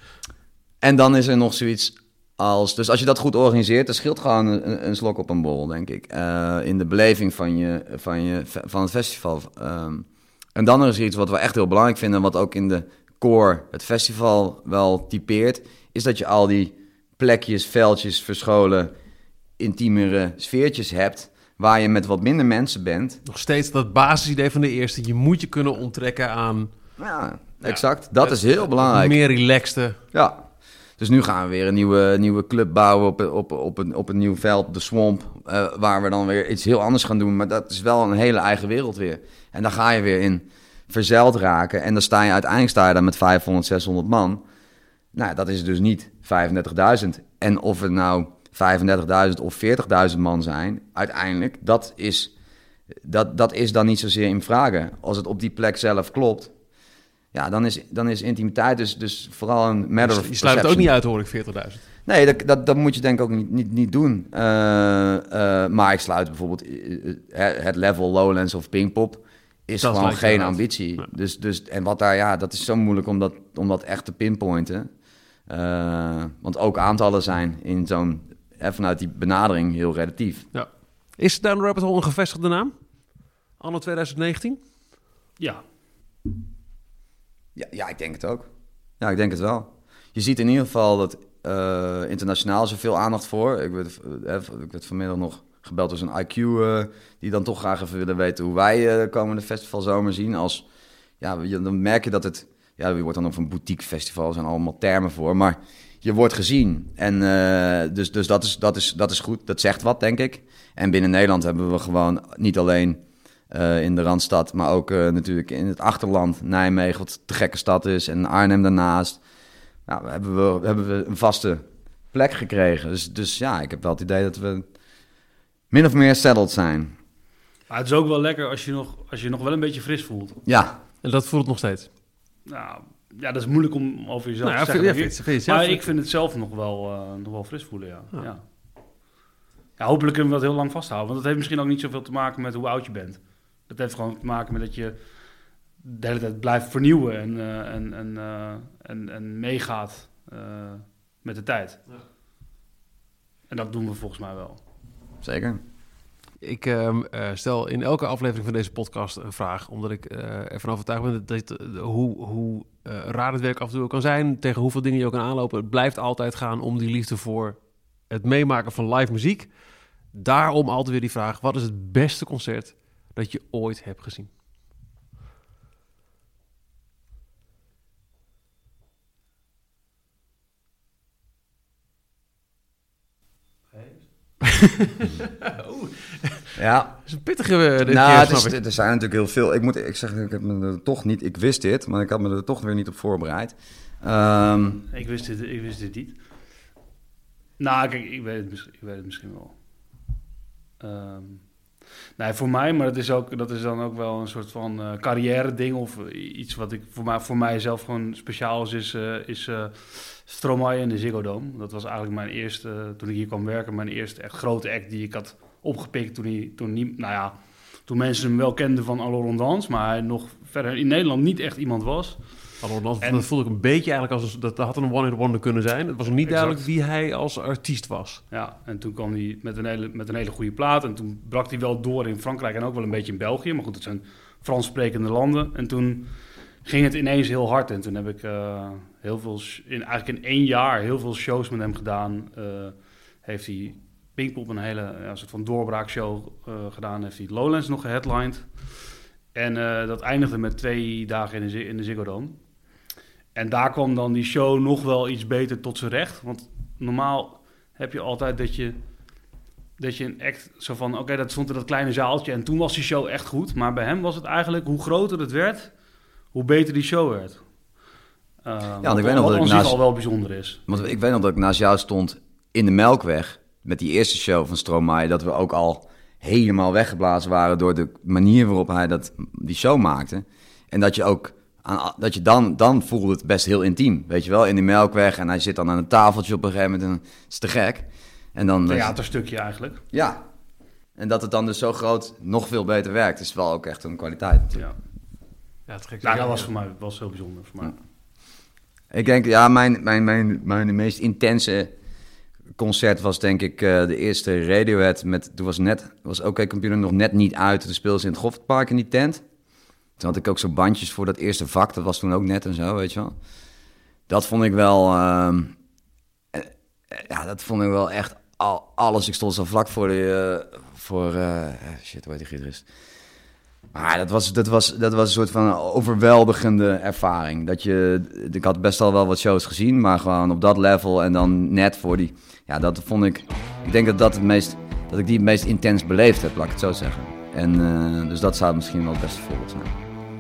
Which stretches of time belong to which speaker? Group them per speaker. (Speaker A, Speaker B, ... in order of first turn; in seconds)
Speaker A: 0.8-18.9, 19.6-23.2, 27.0-29.2, 30.1-30.5, 31.0-44.4, 45.1-52.3, 53.0-56.5, 57.3-60.9, 62.1-74.9, 75.5-80.5, 87.6-88.5, 89.0-100.7, 101.2-119.2, 119.9-124.7, 125.7-127.0, 130.5-130.8, 155.2-155.6, 186.6-187.1, 187.8-194.8, 268.8-269.8, 270.7-288.9, 289.9-290.2, 291.0-294.6, 298.9-301.7, 302.6-309.2, 310.0-313.1, 314.1-315.6, 316.3-322.7, 323.7-339.8
Speaker B: 23.3-26.7, 27.6-30.0, 60.0-61.9, 69.8-71.1, 80.5-82.8, 83.6-84.6, 131.0-131.9, 134.4-135.8, 156.4-169.5, 170.1-174.3, 184.4-186.5, 187.1-188.6, 222.6-228.2, 295.7-296.5
Speaker C: 127.7-130.4, 132.5-138.4, 139.8-145.0, 145.8-151.8, 153.5-154.6, 194.9-196.2, 197.6-199.6, 200.8-201.4, 202.2-222.3, 223.0-223.3, 226.3-226.7, 228.3-248.5, 249.3-252.4, 253.3-258.8, 259.8-265.7, 266.3-267.4, 268.4-270.8, 288.7-289.8, 296.0-297.8